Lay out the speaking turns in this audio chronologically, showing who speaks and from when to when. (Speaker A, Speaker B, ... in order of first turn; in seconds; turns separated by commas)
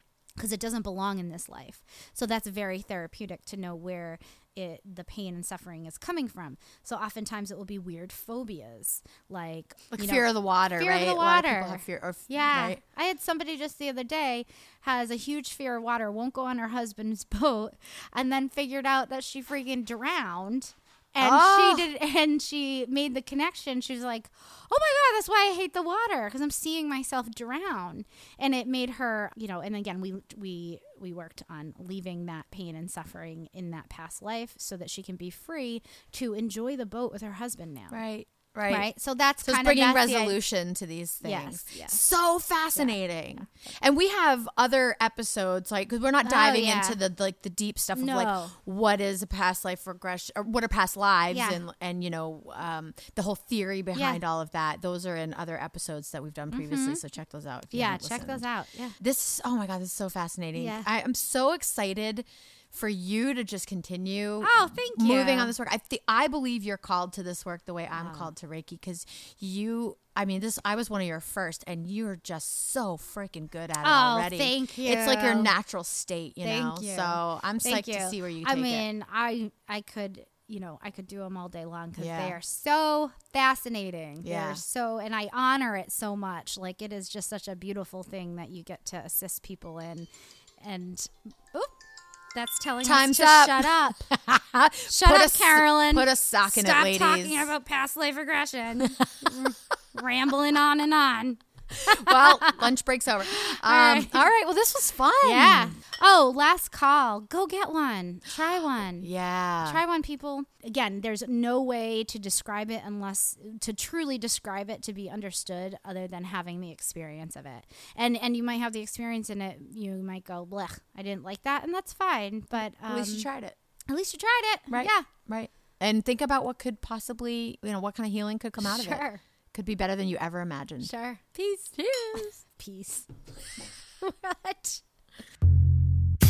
Speaker A: 0.4-38.0, Speaker B: 9.9-12.8, Speaker B: 21.2-21.9, Speaker B: 37.9-38.9, Speaker A: 38.7-40.4, Speaker B: 39.4-58.5, Speaker A: 41.2-42.1, Speaker A: 46.2-47.0, Speaker A: 48.0-48.6, Speaker A: 51.3-51.6, Speaker A: 53.9-54.2, Speaker A: 56.5-57.0, Speaker A: 57.7-59.0, Speaker B: 59.0-78.9, Speaker A: 60.5-60.9, Speaker A: 64.4-65.5, Speaker A: 68.0-68.3, Speaker A: 73.8-75.5, Speaker A: 76.4-90.1, Speaker B: 82.0-82.4, Speaker B: 84.2-84.6, Speaker A: 90.6-91.7, Speaker A: 92.3-94.2, Speaker B: 92.8-97.5, Speaker A: 94.9-102.7, Speaker B: 98.8-99.3, Speaker B: 101.8-105.8, Speaker A: 103.2-104.3, Speaker A: 105.2-109.1, Speaker B: 109.0-109.8, Speaker A: 109.7-123.3, Speaker B: 122.8-123.5, Speaker A: 123.9-125.1, Speaker B: 124.7-130.9, Speaker A: 128.6-129.2, Speaker A: 130.8-133.1, Speaker B: 131.7-132.4, Speaker A: 134.0-134.8